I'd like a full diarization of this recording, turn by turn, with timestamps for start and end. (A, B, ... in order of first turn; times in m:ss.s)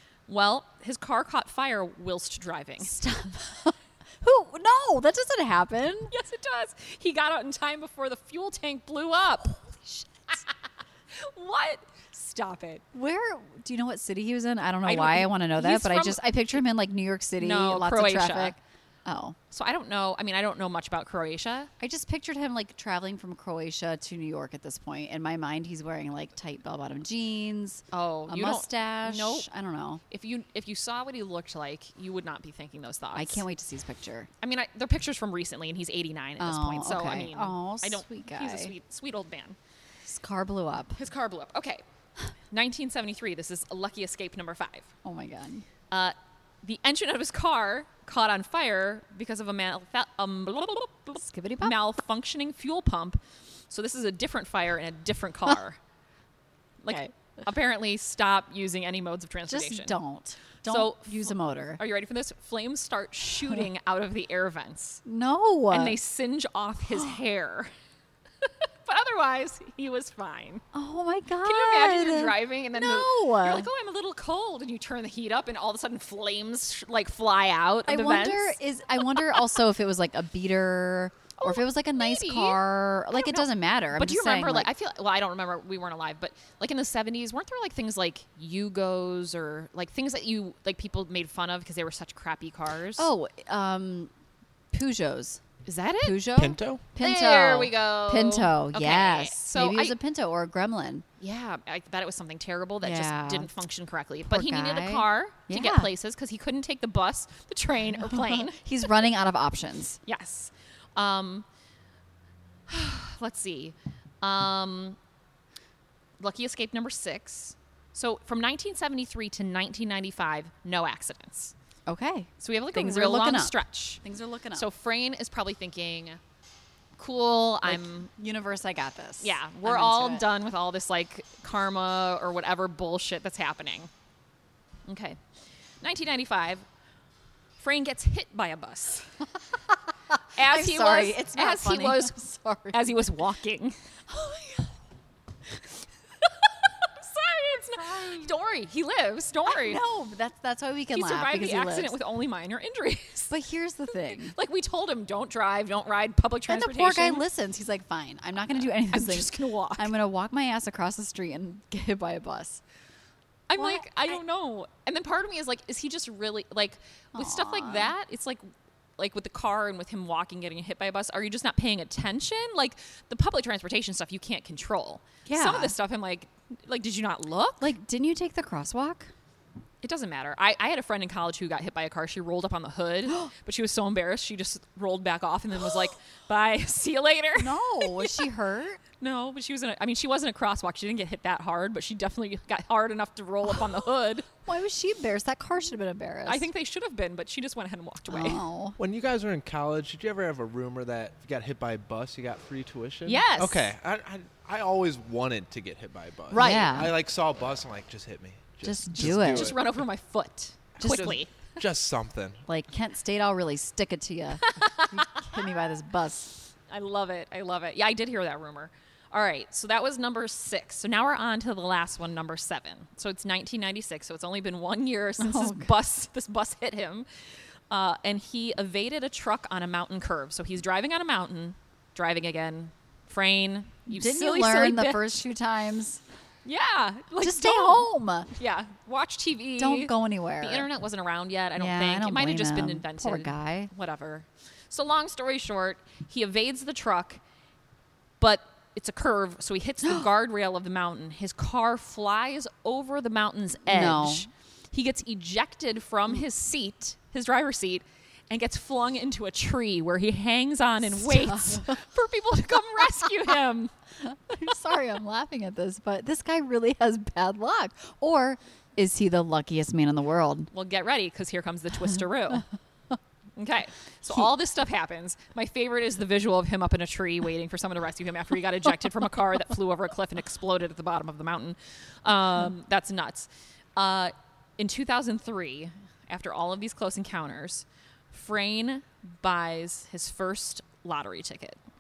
0:00.3-0:02.9 A
0:02.8-0:06.1 B
0:06.1-0:09.6 A
0:09.8-0:10.4 B
0:11.1-0:12.8 A
0:12.9-0:19.4 B
0:14.8-0:16.6 A
0:17.4-0:18.6 A
0:19.5-0:21.7 A
0:21.8-0:30.0 B
0:27.9-0:29.5 A
0:30.1-0:33.4 A
0:33.1-0:34.3 B
0:34.4-0:39.6 A
0:36.4-0:38.7 B
0:40.0-0:41.0 B
0:41.0-0:41.8 A
0:42.5-0:44.9 A
0:45.0-0:45.6 B
0:45.9-0:55.8 A
0:51.2-0:51.7 B
0:56.8-1:00.0 A
0:59.5-1:01.8 B
1:00.6-1:05.0 A
1:05.0-1:06.0 B
1:05.7-1:07.7 A
1:08.4-1:10.6 A
1:10.7-1:13.7 B
1:11.4-1:18.6 A
1:17.8-1:24.7 B
1:21.4-1:33.1 A
1:33.0-1:34.1 B
1:34.7-1:35.4 B
1:35.6-1:36.3 A
1:36.0-1:41.0 B
1:36.4-1:36.8 C
1:37.0-1:39.9 A
1:41.2-1:48.6 A
1:42.8-1:43.5 B
1:44.3-1:45.9 B
1:48.0-1:50.0 B
1:50.0-1:51.4 A
1:52.7-1:55.0 A
1:56.2-2:01.5 A
2:01.9-2:04.7 B
2:02.4-2:04.0 A
2:04.5-2:06.2 A
2:07.0-2:08.1 A
2:07.6-2:10.2 B
2:09.2-2:13.9 A
2:14.9-2:15.2 A
2:15.8-2:16.6 A
2:17.6-2:19.1 A
2:20.1-2:22.8 B
2:20.4-2:22.2 A
2:22.7-2:23.8 A
2:24.1-2:24.7 B
2:26.2-2:29.8 A
2:27.8-2:28.3 B
2:29.4-2:32.0 B
2:30.9-2:33.3 A
2:33.3-2:34.4 B
2:34.2-2:37.2 A
2:36.5-2:42.6 B
2:38.9-2:39.9 A
2:43.5-2:48.4 A
2:43.6-2:43.8 B
2:47.1-2:47.9 B
2:49.0-2:57.7 A
2:55.2-2:55.8 B
2:57.6-2:59.1 B
2:59.8-3:08.3 A
3:07.4-3:08.8 B
3:09.0-3:14.3 A
3:14.4-3:16.5 B
3:16.2-3:18.4 A
3:18.1-3:18.8 B
3:18.8-3:29.8 C
3:23.0-3:23.7 A
3:26.3-3:26.8 A
3:26.3-3:26.9 B
3:28.6-3:29.6 B
3:29.0-3:31.5 A
3:30.8-3:32.4 C
3:30.8-3:31.2 B
3:32.5-3:36.4 B
3:34.4-3:35.2 A
3:36.7-3:47.1 A
3:45.2-3:45.7 B
3:47.7-3:55.2 A
3:53.9-3:56.0 B
3:56.4-4:07.2 A
3:57.2-3:58.3 B
3:59.6-4:00.7 B
4:01.6-4:03.7 B
4:08.2-4:23.7 A
4:13.6-4:14.3 B
4:21.1-4:21.7 B
4:24.1-4:30.5 B
4:30.5-4:32.4 A
4:33.4-4:51.6 A